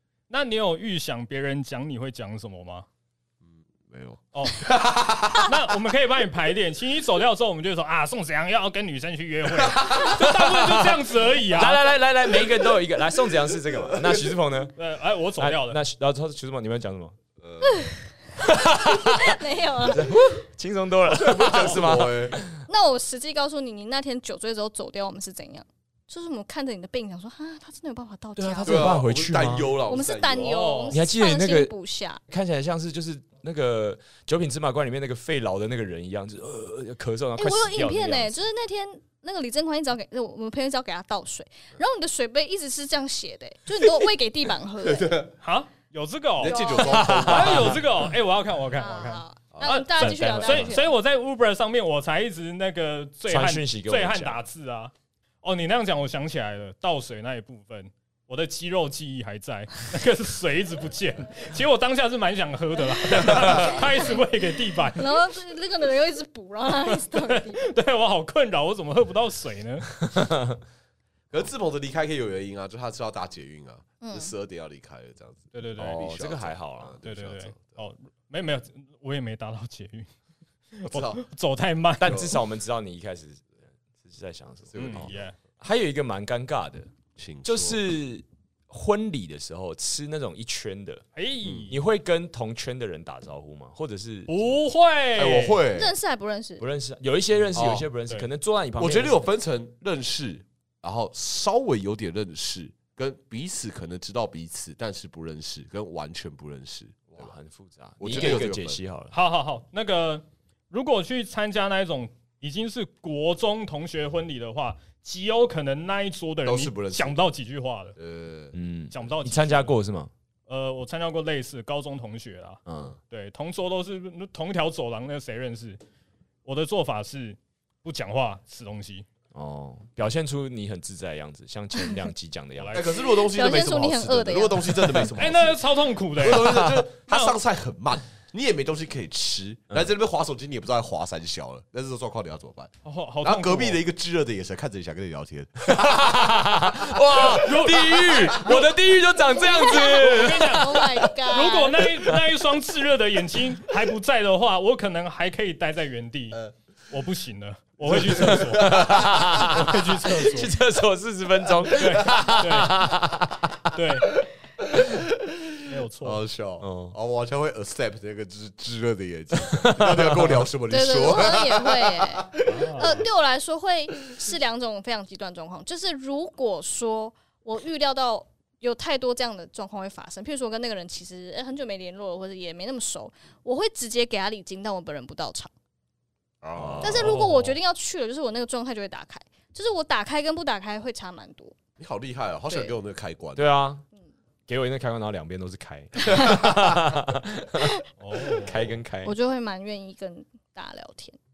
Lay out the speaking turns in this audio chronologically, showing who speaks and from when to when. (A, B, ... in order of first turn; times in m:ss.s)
0:00.3-0:02.8 A
0:03.5-0:05.5 B
0:04.3-0:04.7 A
0:05.3-0:11.8 A
0:09.7-0:10.1 B
0:10.1-0:14.7 C
0:13.7-0:14.3 B
0:14.8-0:15.8 A
0:15.4-0:17.2 C
0:17.4-0:17.8 B
0:17.6-0:20.2 D
0:18.4-0:22.6 C
0:21.1-0:22.4 B
0:22.7-0:29.0 D
0:28.4-0:29.7 C
0:28.6-0:30.6 B
0:29.9-0:32.2 D
0:30.4-0:31.0 A
0:30.9-0:31.7 C
0:32.3-0:38.4 C
0:37.4-0:45.2 D
0:44.8-0:45.3 B
0:45.4-0:46.6 A
0:46.4-0:47.8 B
0:46.4-0:47.2 D
0:46.8-0:47.9 C
0:47.2-1:05.2 A
0:48.8-0:50.9 D
0:50.0-0:50.8 C
0:53.3-0:54.4 C
1:03.2-1:03.7 C
1:05.0-1:07.6 D
1:06.8-1:09.9 A
1:10.0-1:10.6 C
1:11.3-1:17.8 B
1:14.0-1:14.3 D
1:15.5-1:16.0 A
1:15.8-1:17.0 C
1:17.0-1:20.1 A
1:20.7-1:22.3 A
1:20.9-1:21.2 B
1:22.0-1:23.5 C
1:22.0-1:22.3 B
1:24.0-1:26.9 C
1:24.7-1:25.2 B
1:24.8-1:25.3 A
1:27.2-1:27.8 B
1:27.4-1:31.0 C
1:31.1-1:31.8 A
1:31.4-1:31.7 B
1:31.7-1:34.5 C
1:34.3-1:35.6 A
1:35.2-1:35.9 B
1:35.7-1:36.6 D
1:36.6-1:39.2 C
1:37.5-1:37.9 B
1:38.8-1:47.3 B
1:47.1-1:49.1 C
1:48.0-1:48.8 B
1:48.1-1:48.4 A
1:49.1-1:58.0 A
1:56.4-1:57.2 B
1:58.0-1:58.5 B
1:58.5-2:00.1 C
1:58.9-1:59.8 A
2:00.5-2:05.8 A
2:02.7-2:03.0 C
2:06.4-2:09.1 A
2:09.3-2:12.8 C
2:12.6-2:12.9 A
2:12.7-2:15.6 B
2:13.0-2:15.1 D
2:15.2-2:17.4 A
2:16.2-2:22.7 B
2:22.8-2:23.8 A
2:23.2-2:27.4 B
2:25.6-2:31.0 C
2:27.2-2:28.6 A
2:27.9-2:28.5 B
2:29.3-2:31.9 D
2:29.7-2:40.6 A
2:37.9-2:39.5 B
2:37.9-2:43.7 C
2:41.8-2:42.8 A
2:43.7-2:44.1 A
2:44.2-2:52.8 B
2:45.6-2:46.2 A
2:46.6-2:46.9 C
2:49.4-2:50.4 C
2:50.7-3:05.5 D
2:52.4-2:53.0 A
3:06.4-3:07.1 B
3:06.6-3:07.2 C
3:06.8-3:11.6 D
3:07.0-3:07.6 A
3:11.8-3:13.5 B
3:12.5-3:12.7 D
3:13.4-3:13.8 C
3:14.5-3:17.8 C
3:16.1-3:16.5 D
3:18.0-3:18.7 A
3:18.4-3:19.1 C
3:19.0-3:21.2 D